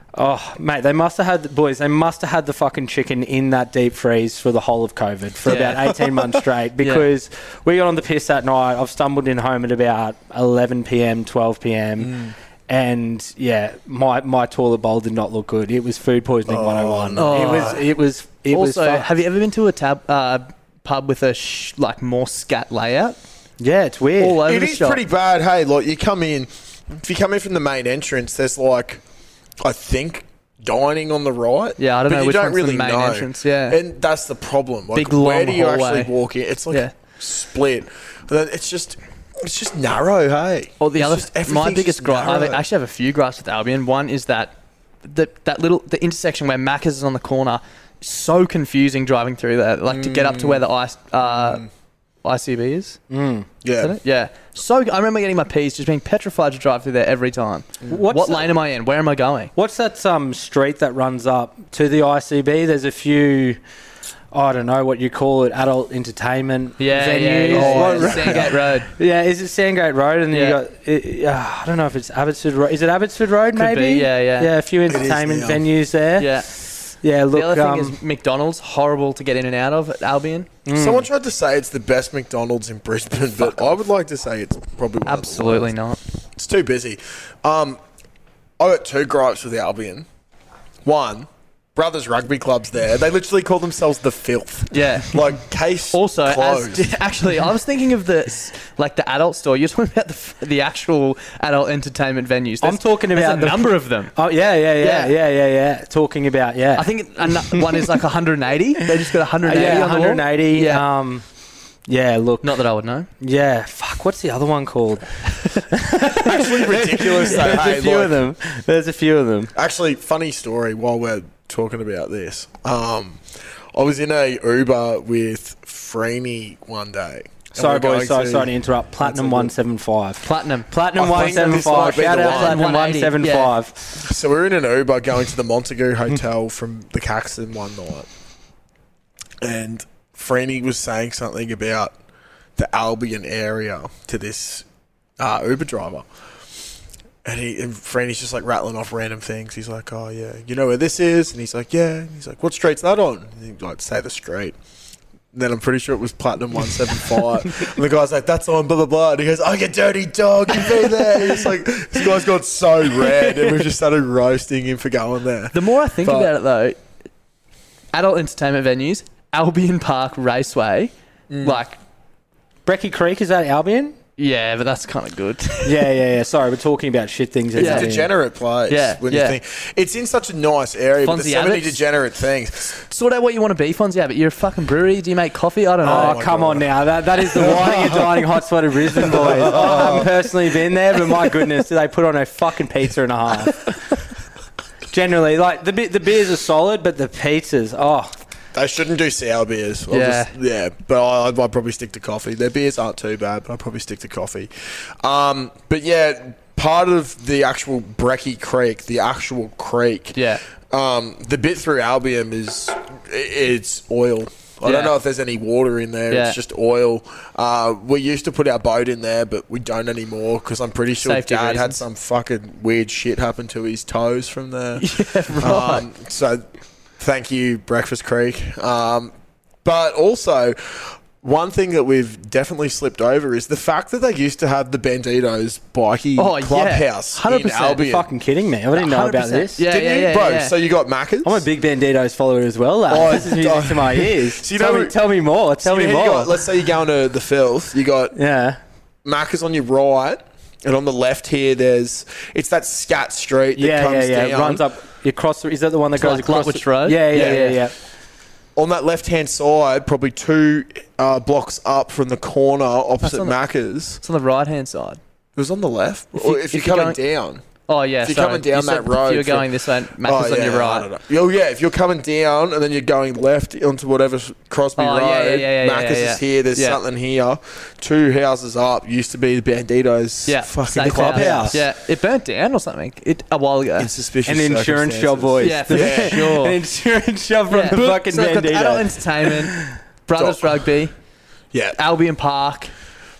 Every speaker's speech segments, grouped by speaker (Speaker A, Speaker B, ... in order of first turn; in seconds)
Speaker A: 0.1-19.1, 23.6-24.4, 53.1-53.5, 57.9-58.5, 59.6-63.6, 64.3-76.4, 77.0-78.0, 80.7-81.1, 102.6-107.9, 109.4-111.2, 111.9-112.5, 113.2-115.2, 115.7-119.5, 127.5-133.9, 172.7-174.0, 175.6-178.1, 185.8-193.7, 194.9-198.2, 237.8-239.6, 241.2-246.4, 248.2-248.6, 253.6-257.7, 280.8-281.6, 284.3-289.7
Speaker B: 5.5-6.0, 6.8-7.1, 17.2-17.8, 18.5-23.2, 24.2-25.0, 31.8-33.8, 35.0-36.1, 40.8-51.6, 52.2-53.0, 53.8-59.5, 66.8-68.9, 70.3-70.6, 73.5-74.5, 76.2-76.5, 77.3-80.5, 83.4-83.8, 85.0-86.0, 94.7-104.2, 104.8-105.1, 106.8-110.8, 112.4-113.1, 130.2-133.6, 165.5-166.8, 167.9-171.8, 174.2-175.9, 177.6-177.9, 178.7-179.4, 181.0-181.8, 182.9-186.2, 199.9-200.3, 210.2-210.4, 214.6-215.0, 216.1-216.4, 221.0-221.8, 224.8-225.8, 236.2-237.9, 238.7-240.5, 256.0-257.6, 263.0-263.4, 263.9-265.0, 266.1-267.0, 267.7-270.9, 274.8-276.8, 280.3-283.9, 285.4-286.6, 287.5-290.9, 291.8-292.7
Speaker C: 12.0-12.3, 16.5-17.8, 24.4-29.0, 29.6-42.6, 49.9-50.6, 51.2-51.6, 53.6-54.0, 67.5-68.6, 74.9-75.6, 80.7-85.7, 86.4-87.8, 88.6-90.1, 90.8-96.9, 116.3-118.2, 119.6-129.5, 131.0-132.7, 134.0-138.1, 139.4-141.9, 142.6-144.7, 145.2-146.1, 147.2-154.6, 155.3-166.3, 171.3-171.6, 177.6-182.8, 185.8-186.7, 187.4-188.0, 189.5-190.1, 198.5-204.5, 205.0-224.9, 225.4-226.5, 227.0-229.1, 229.6-238.1, 239.6-241.4, 242.9-245.0, 245.6-248.2, 249.1-254.6, 257.1-257.6, 258.6-264.0, 265.4-267.4, 268.0-269.5, 270.0-281.6, 283.8-286.3, 290.2-290.6, 291.5-291.8